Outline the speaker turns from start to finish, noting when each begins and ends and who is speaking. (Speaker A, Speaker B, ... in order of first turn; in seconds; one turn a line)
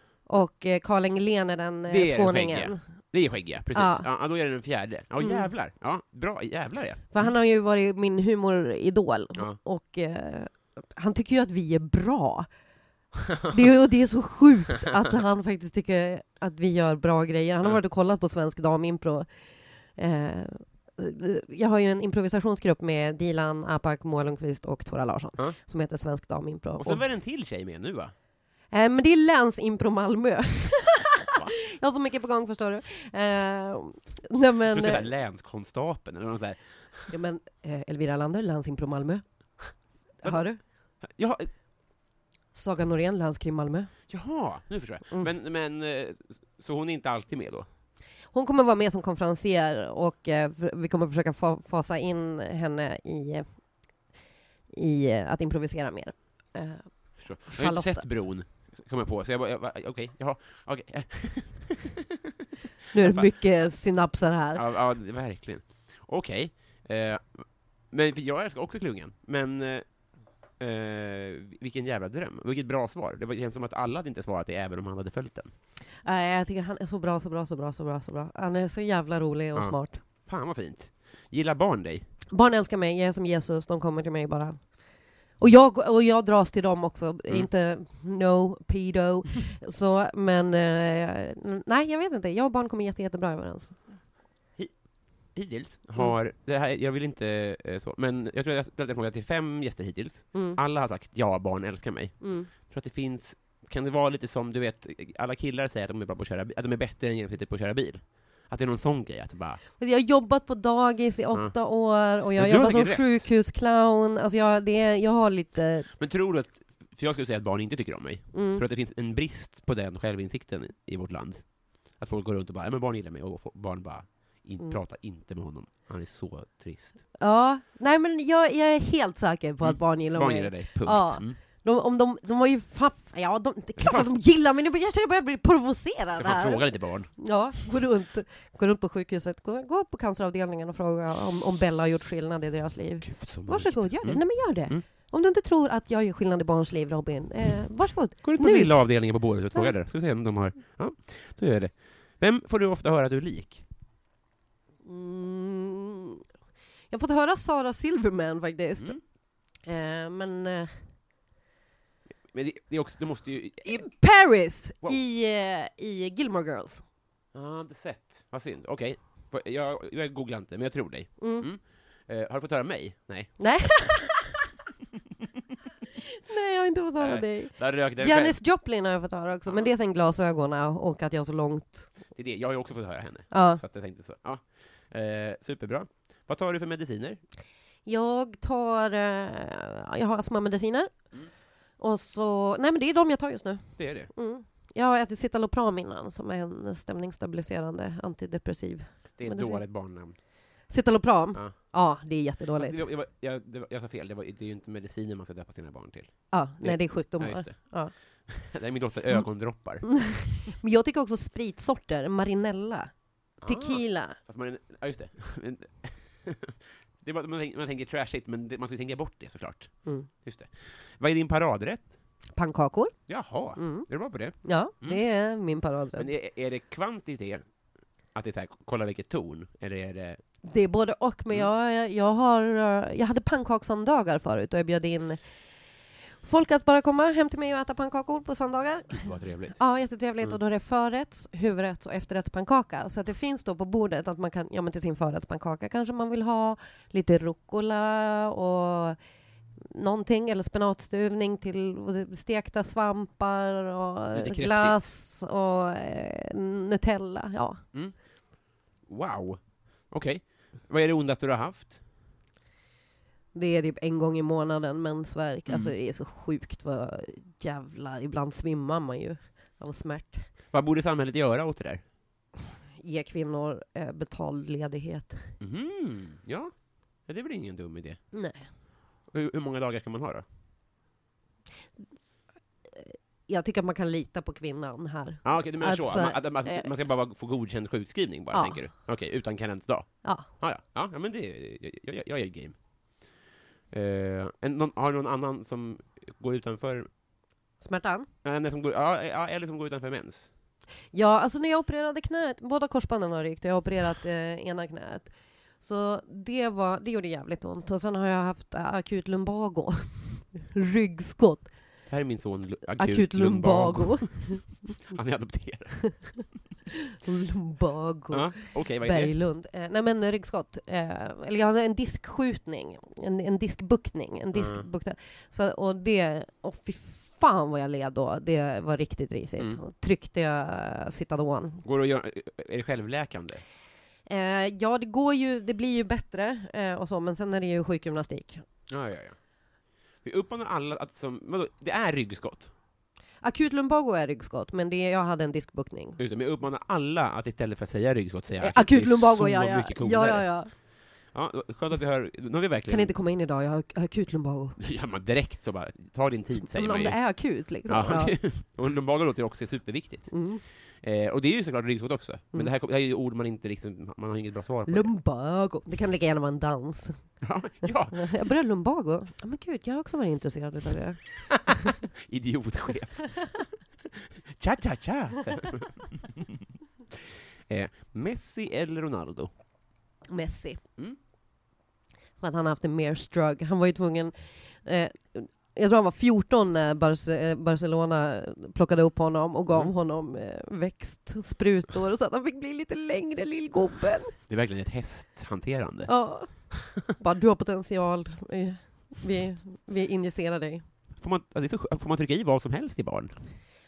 Speaker A: 0.2-3.1
Speaker B: 1.9-7.3
Speaker A: 3.7-4.0
Speaker A: 5.2-5.5
Speaker A: 7.1-12.5
Speaker A: 13.5-19.3
Speaker A: 19.9-27.0
Speaker B: 26.8-28.1
Speaker A: 28.7-35.0
Speaker B: 34.7-37.1
Speaker A: 37.1-40.6
Speaker B: 40.2-41.5
Speaker A: 42.5-43.9
Speaker B: 44.1-47.7
Speaker A: 48.3-53.9
Speaker A: 54.7-58.0
Speaker B: 57.2-61.9
Speaker A: 62.9-64.6
Speaker B: 63.0-63.3
Speaker B: 64.5-75.5
Speaker A: 76.0-80.0
Speaker B: 79.5-82.1
Speaker A: 82.3-93.8
Speaker B: 94.6-109.6
Speaker A: 100.3-100.6
Speaker A: 102.2-102.5
Speaker A: 109.8-115.9
Speaker B: 111.3-113.3
Speaker B: 116.0-127.0
Speaker A: 118.3-118.6
Speaker A: 127.2-149.7
Speaker B: 129.6-131.4
Speaker B: 136.2-137.2
Speaker B: 143.0-144.8
Speaker B: 148.2-153.6
Speaker A: 154.8-156.2
Speaker A: 156.9-160.8
Speaker B: 162.3-163.8
Speaker A: 163.6-166.8
Speaker B: 167.3-173.8
Speaker A: 171.2-171.5
Speaker A: 173.4-174.3
Speaker A: 176.3-181.9
Speaker B: 177.0-178.4
Speaker B: 182.1-187.2
Speaker A: 183.3-183.6
Speaker A: 187.8-191.1
Speaker A: 191.8-199.7
Speaker B: 193.8-194.1
Speaker B: 199.2-200.2
Speaker A: 200.7-202.8
Speaker B: 201.3-201.7
Speaker B: 202.6-210.2
Speaker A: 206.3-208.3
Speaker A: 209.8-214.2
Speaker B: 213.4-221.9
Speaker A: 222.3-222.9
Speaker B: 223.1-225.0
Speaker A: 223.5-226.1
Speaker B: 225.9-227.4
Speaker B: 228.1-230.2
Speaker A: 230.4-235.2
Speaker A: 236.2-249.0
Speaker B: 238.9-239.6
Speaker A: 249.6-257.6
Speaker B: 254.1-254.8
Speaker B: 257.7-261.8
Speaker A: 263.3-270.3
Speaker B: 265.5-265.7
Speaker B: 270.5-271.8
Speaker A: 272.8-275.3
Speaker B: 275.4-278.0
Speaker A: 278.1-278.5
Speaker B: 279.0-280.2
Speaker A: 282.7-286.7
Speaker B: 285.2-293.1
Speaker A: 288.3-288.6
Speaker B: 293.7-296.9
Speaker A: 297.6-298.1
Speaker B: 298.2-300.3
Speaker A: 300.9-311.9
Speaker B: 311.9-316.3
Speaker A: 312.8-314.7
Speaker A: 317.0-331.6
Speaker B: 318.1-319.1
Speaker B: 324.3-324.6
Speaker B: 331.6-333.4
Speaker A: 334.1-338.4
Speaker B: 338.7-339.2
Speaker B: 340.0-342.5
Speaker A: 343.2-346.0
Speaker B: 346.0-352.9
Speaker A: 348.4-350.5
Speaker A: 352.7-354.6
Speaker B: 354.6-364.9
Speaker A: 356.5-358.1
Speaker A: 360.1-360.4
Speaker A: 364.7-371.7
Speaker B: 367.2-368.1
Speaker B: 372.0-373.5
Speaker B: 374.4-376.2
Speaker B: 377.5-379.3
Speaker A: 380.1-380.6
Speaker A: 382.2-394.1
Speaker B: 394.3-396.6
Speaker A: 395.9-400.6
Speaker B: 401.0-403.1